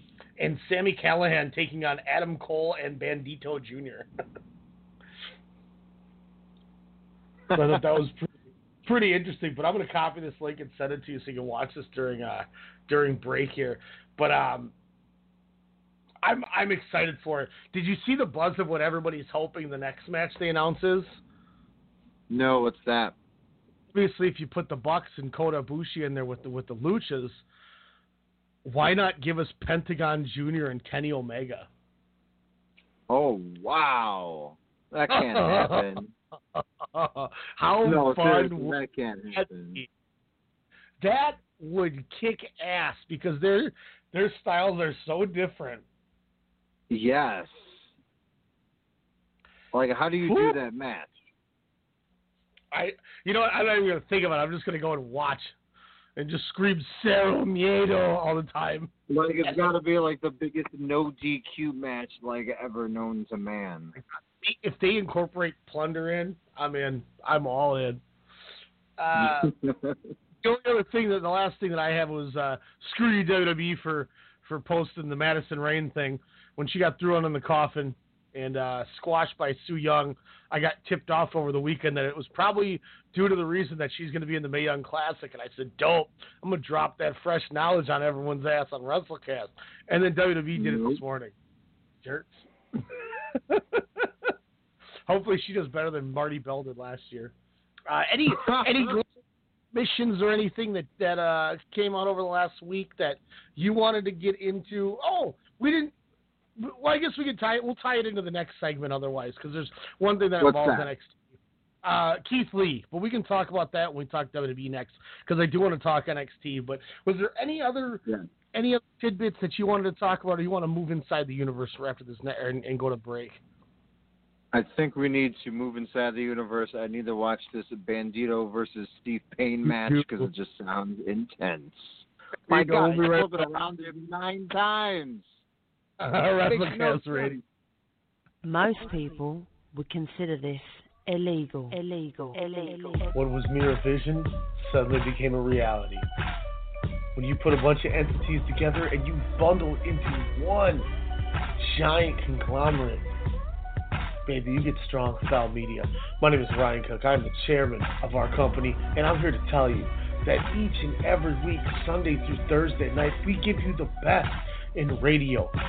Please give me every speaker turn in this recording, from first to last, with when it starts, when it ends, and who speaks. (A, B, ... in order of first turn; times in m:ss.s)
0:00.4-0:04.1 A
0:07.5-0:07.8 B
0:07.5-0:08.3 A
0:08.8-0:14.7 A
0:16.2-0:21.2 A
0:22.3-0:23.2 B
0:23.9-0:27.4 A
0:28.6-0:31.7 A
0:33.1-0:36.1 B
0:35.1-0:35.8 A
0:36.6-0:38.8 A
0:37.8-0:39.8 B
0:39.3-0:39.9 A
0:41.0-0:45.8 A
0:46.9-0:47.9 B
0:49.7-0:51.2 B
0:50.2-0:50.6 A
0:52.7-0:55.6 A
0:56.2-0:58.9 A
0:59.1-1:04.0 B
0:59.4-0:59.7 A
1:04.0-1:08.0 A
1:09.0-1:09.5 A
1:09.2-1:10.0 B
1:10.4-1:31.4 A
1:30.6-1:31.0 B
1:32.0-1:32.5 A
1:33.3-1:34.3 A
1:35.1-1:37.3 A
1:37.9-1:39.1 A
1:38.3-1:39.0 B
1:39.7-1:45.9 A
1:46.6-2:03.4 A
1:50.4-1:50.9 B
2:04.5-2:15.4 B
2:09.7-2:10.3 A
2:12.5-2:13.5 A
2:16.0-2:17.4 A
2:16.4-2:17.4 B
2:18.4-2:23.1 C
2:23.1-2:26.1 A
2:27.2-2:30.9 A
2:31.6-2:33.1 A
2:34.3-2:45.5 A